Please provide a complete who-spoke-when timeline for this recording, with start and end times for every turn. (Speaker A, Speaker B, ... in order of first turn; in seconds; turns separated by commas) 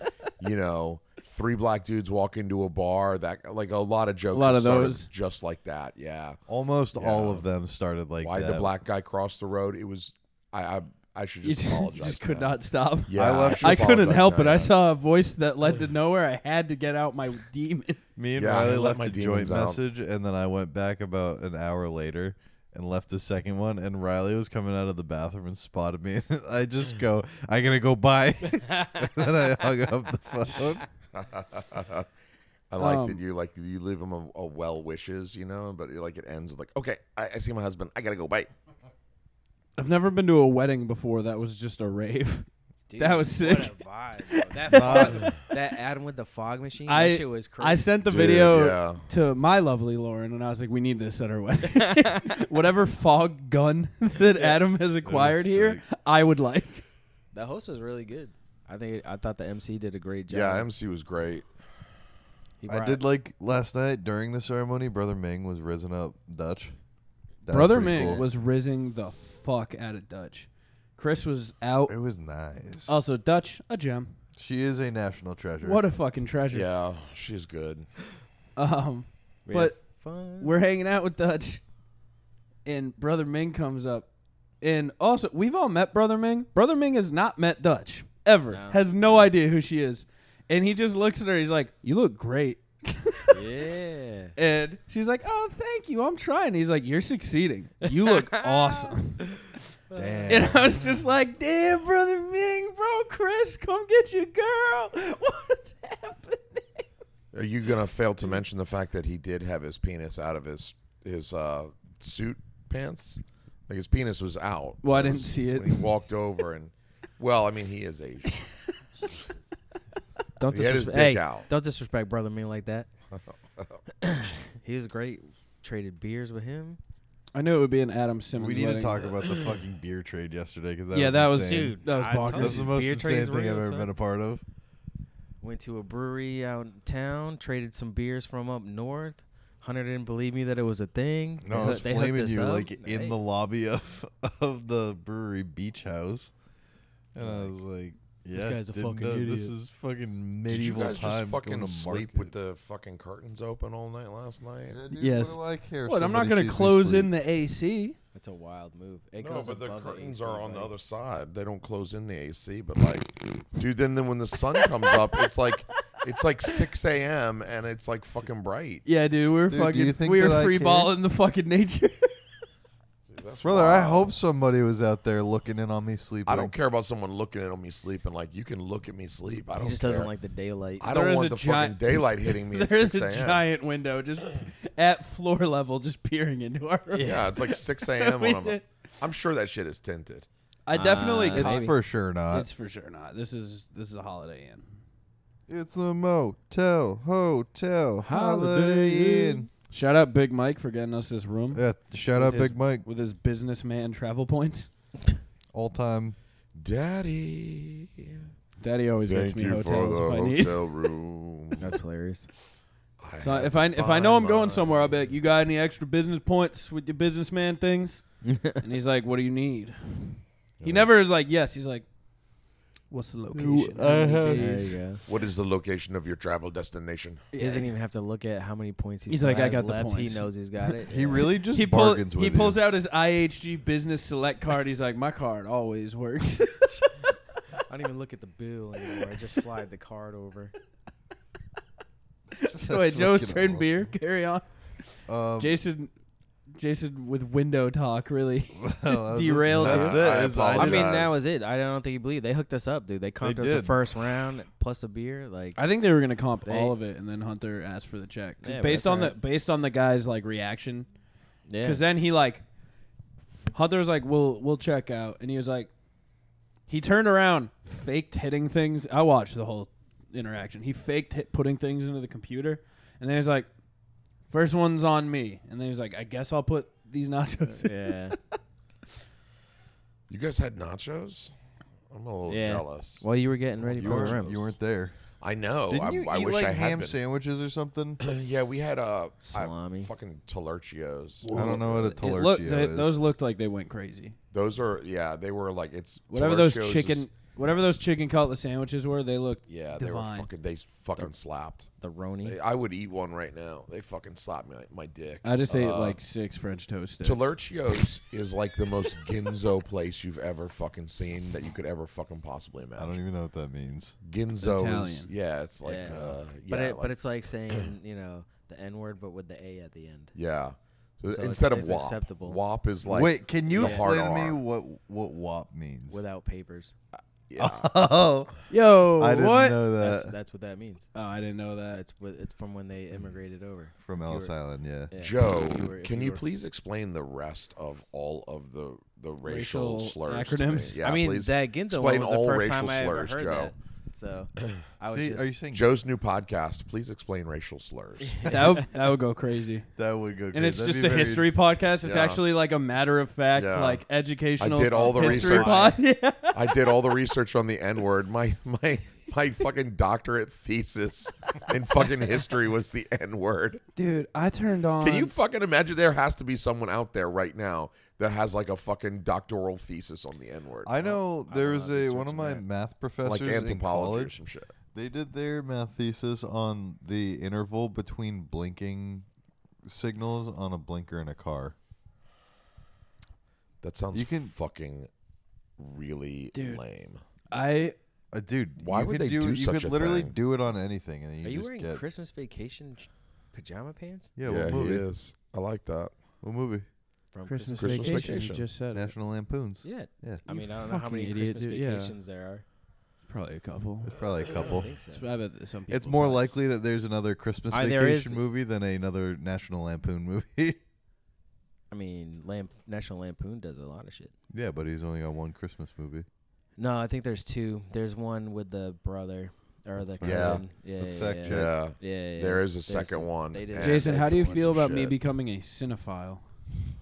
Speaker A: 0.4-6.4, Speaker B: 4.3-5.1, Speaker C: 6.5-8.7, Speaker A: 7.0-7.5, Speaker A: 8.2-12.6, Speaker B: 11.4-18.0, Speaker A: 13.1-14.8, Speaker C: 13.1-14.3, Speaker C: 18.2-30.9, Speaker A: 18.4-19.8, Speaker A: 31.1-32.1, Speaker A: 32.7-38.5, Speaker B: 32.8-33.2, Speaker B: 39.8-42.5, Speaker D: 42.9-47.9, Speaker B: 43.0-43.7, Speaker B: 44.3-45.3, Speaker C: 44.7-45.3, Speaker B: 46.9-56.8, Speaker A: 48.0-49.0, Speaker D: 51.7-52.4, Speaker D: 54.3-54.6, Speaker C: 55.0-55.8, Speaker D: 57.3-60.7, Speaker A: 60.3-61.5, Speaker D: 62.6-63.0, Speaker C: 62.7-66.8, Speaker C: 67.4-68.3, Speaker B: 67.5-72.0, Speaker D: 68.0-68.2, Speaker C: 71.9-73.0, Speaker B: 72.9-74.2, Speaker C: 74.4-75.8, Speaker B: 75.6-76.7, Speaker A: 76.5-77.9, Speaker B: 78.6-79.8, Speaker D: 79.5-80.5, Speaker B: 80.4-81.6, Speaker B: 82.7-84.1, Speaker B: 84.6-93.4, Speaker D: 88.5-89.3, Speaker D: 93.3-94.3, Speaker B: 94.4-99.4, Speaker D: 97.8-98.9, Speaker D: 99.9-100.4, Speaker C: 99.9-100.9, Speaker B: 100.3-106.9, Speaker A: 107.3-118.4, Speaker B: 114.8-115.9, Speaker D: 120.4-122.9, Speaker A: 120.5-121.5, Speaker A: 123.2-123.8, Speaker D: 124.0-126.8, Speaker B: 127.3-129.2, Speaker C: 128.4-134.4, Speaker B: 130.9-132.7, Speaker D: 131.4-133.9, Speaker D: 135.4-143.2, Speaker C: 141.4-146.3, Speaker C: 147.1-152.3, Speaker D: 147.2-147.6, Speaker D: 148.3-149.6, Speaker A: 150.5-154.8, Speaker C: 154.7-157.1, Speaker B: 155.0-158.0, Speaker D: 158.1-160.7, Speaker A: 159.2-168.8, Speaker B: 168.8-172.2, Speaker C: 169.5-170.9, Speaker A: 173.1-174.1, Speaker C: 173.4-176.5, Speaker A: 176.3-180.1, Speaker D: 179.5-180.9, Speaker A: 180.8-183.4, Speaker B: 180.9-188.6, Speaker A: 186.9-190.3, Speaker B: 190.7-191.7, Speaker D: 190.7-191.7, Speaker C: 191.3-192.5, Speaker B: 192.3-194.7, Speaker C: 195.5-199.5, Speaker B: 198.0-204.7, Speaker C: 201.5-202.9, Speaker C: 205.5-206.2, Speaker A: 206.6-208.3, Speaker B: 208.6-210.7, Speaker A: 209.0-211.8, Speaker D: 211.6-212.3, Speaker A: 213.0-215.0, Speaker B: 213.2-221.9, Speaker D: 218.2-218.6, Speaker A: 220.6-220.9, Speaker B: 222.9-224.8, Speaker C: 223.3-224.8, Speaker D: 224.3-225.0, Speaker A: 225.1-227.2, Speaker B: 227.3-227.7, Speaker D: 227.4-231.3, Speaker B: 229.1-230.3, Speaker C: 230.9-232.6, Speaker B: 231.2-237.1, Speaker D: 237.6-240.5, Speaker B: 242.3-244.5, Speaker C: 242.5-243.9, Speaker C: 245.1-245.6, Speaker B: 245.4-245.9, Speaker B: 246.6-250.0, Speaker C: 248.6-251.1, Speaker A: 249.6-251.2, Speaker D: 250.3-255.6, Speaker C: 253.2-253.8, Speaker B: 255.6-260.9, Speaker D: 256.5-256.8, Speaker D: 258.4-259.2, Speaker D: 261.5-261.8, Speaker B: 261.6-262.4, Speaker B: 263.5-265.7, Speaker B: 266.7-273.5, Speaker B: 274.3-278.1, Speaker D: 277.6-278.1, Speaker A: 280.1-281.3, Speaker A: 281.9-283.0, Speaker D: 282.3-284.6, Speaker C: 283.8-285.0, Speaker A: 283.8-284.2, Speaker A: 285.2-287.0, Speaker C: 285.7-288.0, Speaker A: 288.0-291.9, Speaker D: 289.2-289.9, Speaker B: 291.2-294.1, Speaker C: 291.3-293.0, Speaker A: 294.3-297.1, Speaker B: 296.1-300.3, Speaker A: 299.5-301.7, Speaker D: 301.8-302.4, Speaker A: 302.2-306.0, Speaker B: 305.2-307.4, Speaker A: 307.0-313.0, Speaker C: 312.8-314.0, Speaker A: 314.0-316.9, Speaker B: 314.4-315.1, Speaker D: 315.6-320.1, Speaker C: 315.9-316.2, Speaker A: 320.1-324.4, Speaker D: 321.1-322.4, Speaker C: 322.9-326.0, Speaker D: 323.6-323.9, Speaker D: 325.9-326.8, Speaker A: 327.3-327.7, Speaker C: 327.4-328.3, Speaker B: 328.5-329.6, Speaker C: 329.0-330.1, Speaker D: 329.8-330.9, Speaker B: 330.9-331.8, Speaker D: 331.7-334.3, Speaker C: 333.8-334.9, Speaker D: 334.9-336.2, Speaker A: 335.0-343.5, Speaker B: 339.2-340.8, Speaker D: 340.8-345.3, Speaker C: 344.9-345.7, Speaker A: 345.5-348.4, Speaker D: 348.0-348.7, Speaker B: 348.2-349.7, Speaker C: 349.8-351.3, Speaker B: 350.3-356.6, Speaker A: 351.8-352.2, Speaker A: 353.3-353.8, Speaker A: 354.4-355.8, Speaker D: 354.7-355.8, Speaker A: 356.3-363.6, Speaker B: 363.8-365.1, Speaker A: 364.8-370.7, Speaker C: 370.6-374.1, Speaker D: 370.8-372.4, Speaker A: 373.0-374.5, Speaker C: 374.7-379.1, Speaker C: 379.6-381.6, Speaker A: 383.6-384.9, Speaker C: 383.9-384.3, Speaker A: 385.6-387.0, Speaker B: 386.3-386.6, Speaker B: 387.3-387.8, Speaker C: 388.1-391.8, Speaker A: 388.6-390.1, Speaker D: 391.2-394.1, Speaker C: 394.2-394.9, Speaker A: 394.2-396.0, Speaker C: 396.2-396.7, Speaker D: 397.1-398.3, Speaker B: 397.3-398.9, Speaker A: 397.6-398.5, Speaker C: 398.7-400.2, Speaker D: 399.6-402.4, Speaker B: 400.2-401.9, Speaker B: 403.1-403.9, Speaker C: 403.9-404.7, Speaker D: 404.3-405.1, Speaker B: 404.9-406.3, Speaker C: 405.7-410.6, Speaker D: 407.5-408.2, Speaker D: 411.7-414.1, Speaker C: 414.3-416.1, Speaker D: 416.6-424.1, Speaker C: 419.8-421.6, Speaker A: 420.0-420.4, Speaker A: 421.2-425.0, Speaker B: 423.6-426.2